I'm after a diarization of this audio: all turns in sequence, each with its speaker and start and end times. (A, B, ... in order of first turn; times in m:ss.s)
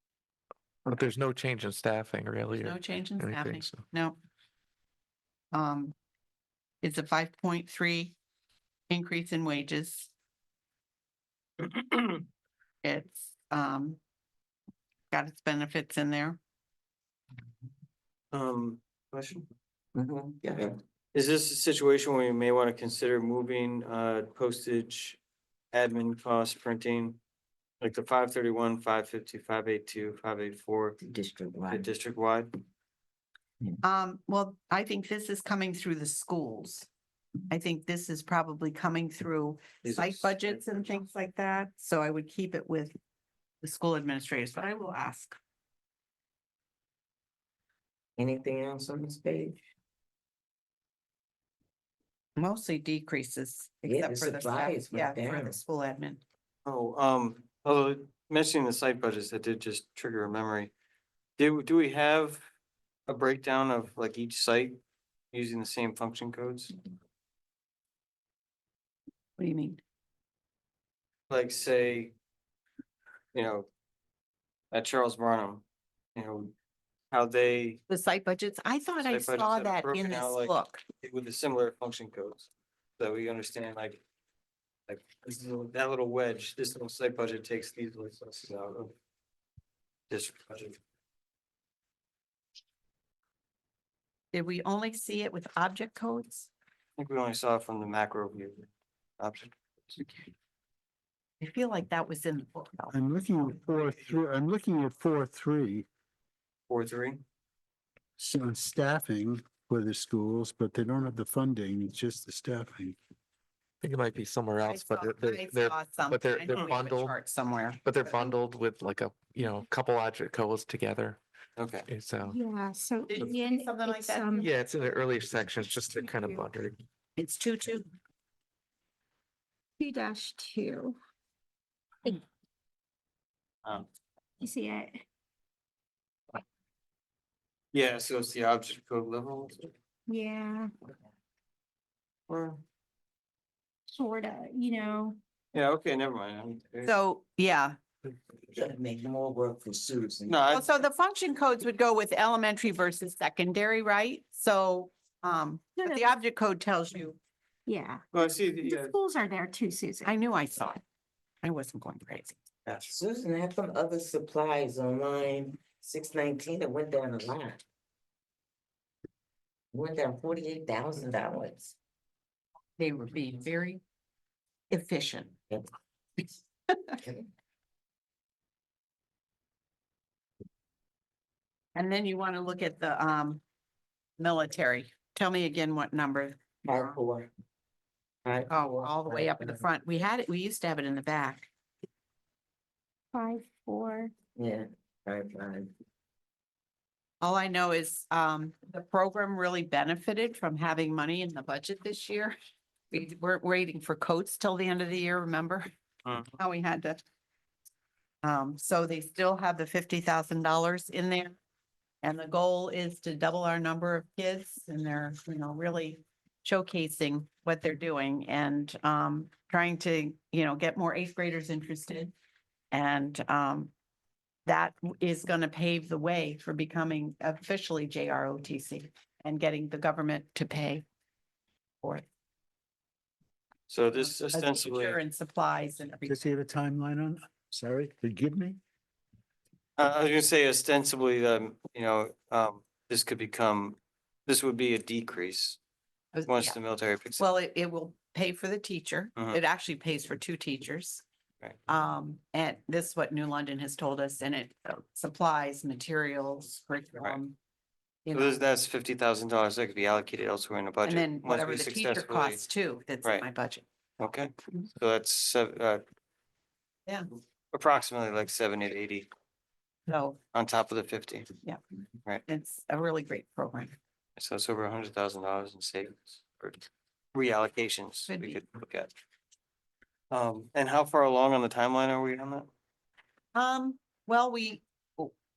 0:00.8-0:03.8 A
0:02.6-0:04.2 B
0:05.5-0:06.0 B
0:06.8-0:08.2 B
0:08.9-0:10.1 B
0:11.6-0:12.2 C
0:12.8-0:14.0 B
0:15.1-0:16.4 B
0:18.3-0:19.5 C
0:20.0-0:20.8 D
0:21.1-0:25.2 C
0:25.7-0:27.2 C
0:27.8-0:31.0 C
0:31.0-0:31.9 D
0:31.7-0:32.5 C
0:33.8-0:36.9 B
0:37.5-0:43.0 B
0:39.8-0:40.4 C
0:43.6-0:45.4 B
0:48.2-0:49.6 D
0:52.4-0:56.2 B
0:53.8-0:55.6 D
0:56.7-1:00.7 C
1:01.4-1:02.4 C
1:03.1-1:04.8 C
1:05.3-1:06.8 C
1:09.4-1:09.8 B
1:11.3-1:12.1 C
1:13.3-1:13.7 C
1:14.7-1:15.6 C
1:16.2-1:16.5 C
1:17.1-1:17.8 C
1:17.9-1:20.8 B
1:19.0-1:24.0 C
1:24.9-1:28.9 C
1:30.1-1:30.8 C
1:34.3-1:36.5 B
1:37.0-1:38.7 C
1:39.2-1:40.3 C
1:41.4-1:43.0 B
1:42.9-1:45.9 E
1:46.7-1:47.2 C
1:48.2-1:53.0 E
1:53.8-1:57.1 A
1:54.7-1:58.4 B
1:57.8-2:01.2 A
2:01.6-2:01.9 C
2:01.9-2:02.4 A
2:02.2-2:04.5 F
2:03.1-2:04.5 B
2:04.4-2:06.8 A
2:06.0-2:06.4 F
2:07.2-2:07.9 B
2:09.8-2:11.0 F
2:14.4-2:15.0 F
2:17.7-2:19.7 C
2:20.1-2:20.7 F
2:22.3-2:22.6 C
2:23.9-2:25.2 F
2:25.5-2:26.9 C
2:26.8-2:27.8 B
2:28.5-2:30.4 D
2:30.3-2:30.7 C
2:30.5-2:37.2 B
2:35.8-2:36.2 F
2:37.7-2:38.0 F
2:38.1-2:39.0 C
2:38.6-2:40.1 F
2:40.0-2:40.8 B
2:41.4-2:42.4 B
2:42.8-2:47.6 D
2:49.7-2:51.8 D
2:52.8-2:53.8 B
2:54.7-2:55.4 B
2:57.0-2:57.3 D
3:01.8-3:03.4 B
3:04.2-3:07.0 B
3:06.6-3:07.3 D
3:08.2-3:09.3 D
3:08.5-3:11.5 B
3:13.1-3:14.1 F
3:14.4-3:15.7 D
3:17.2-3:22.4 B
3:22.9-3:25.7 B
3:26.1-3:26.3 C
3:26.4-3:27.0 B
3:28.2-3:31.4 B
3:32.0-3:42.1 B
3:42.7-3:43.7 B
3:44.4-3:50.8 B
3:53.7-3:55.0 C
3:54.0-3:56.3 B
3:56.1-3:58.6 E
3:59.8-4:03.8 C
4:04.3-4:05.6 C
4:06.1-4:06.6 B
4:06.3-4:07.2 C
4:07.2-4:11.0 B
4:11.7-4:17.4 B
4:18.0-4:18.4 B
4:18.1-4:22.4 C
4:20.8-4:23.6 B
4:24.0-4:25.8 C
4:27.5-4:29.1 C
4:29.9-4:30.2 B
4:30.3-4:31.3 C
4:32.3-4:33.7 B
4:34.2-4:38.9 C
4:38.1-4:38.4 B
4:40.1-4:42.5 C
4:43.4-4:45.1 B